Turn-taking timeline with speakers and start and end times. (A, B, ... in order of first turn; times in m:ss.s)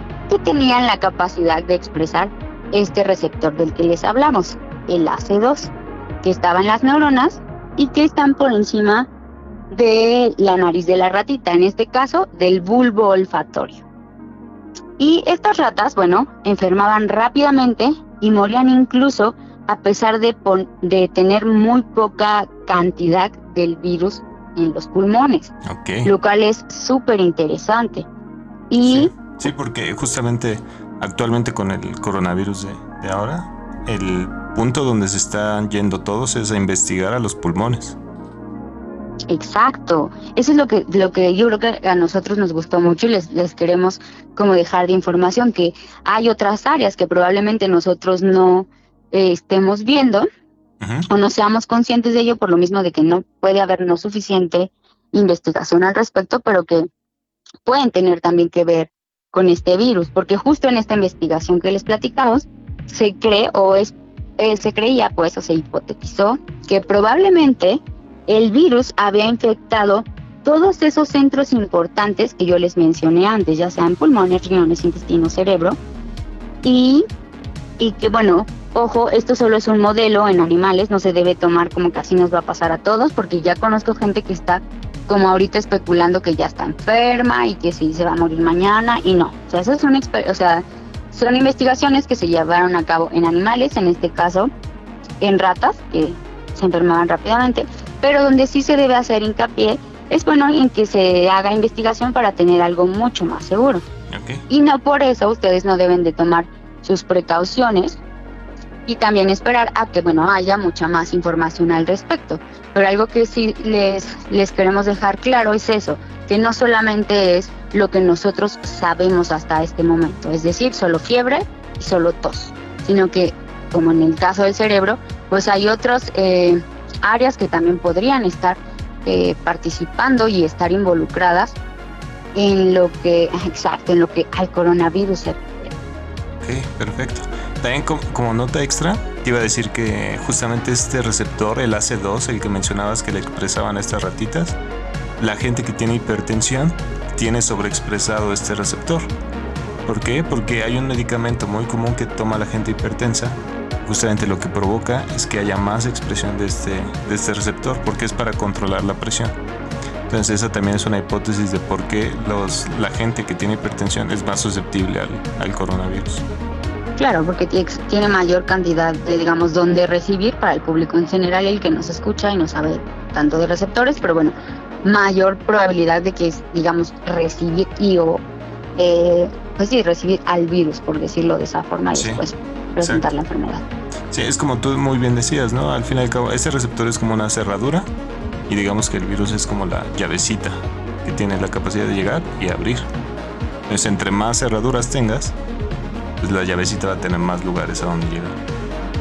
0:00.3-0:05.7 A
0:06.2-0:09.1 A
0:09.7-0:13.8 A
0:15.0-0:25.5 A
0:25.6-0:26.1 B
0:26.0-0:28.1 A
0:28.7-0:29.2 A
0:28.8-0:38.0 B
0:39.3-0:50.3 A
0:50.8-0:51.1 B
0:51.1-0:56.9 A
0:57.6-1:15.8 A
1:16.6-1:17.0 A
1:17.8-1:34.5 A
1:35.2-1:43.8 A
1:44.1-1:44.4 B
1:44.5-1:48.0 A
1:48.9-2:11.6 A
2:12.4-2:15.7 A
2:16.4-2:24.6 B
2:25.2-2:29.1 B
2:29.9-2:39.3 B
2:40.1-2:46.2 B
2:47.0-2:58.2 A
2:58.8-3:03.6 A
3:02.0-3:02.2 B
3:02.8-3:03.1 B
3:04.1-3:07.9 B
3:08.5-3:12.9 B
3:13.7-3:15.4 B
3:16.2-3:18.4 B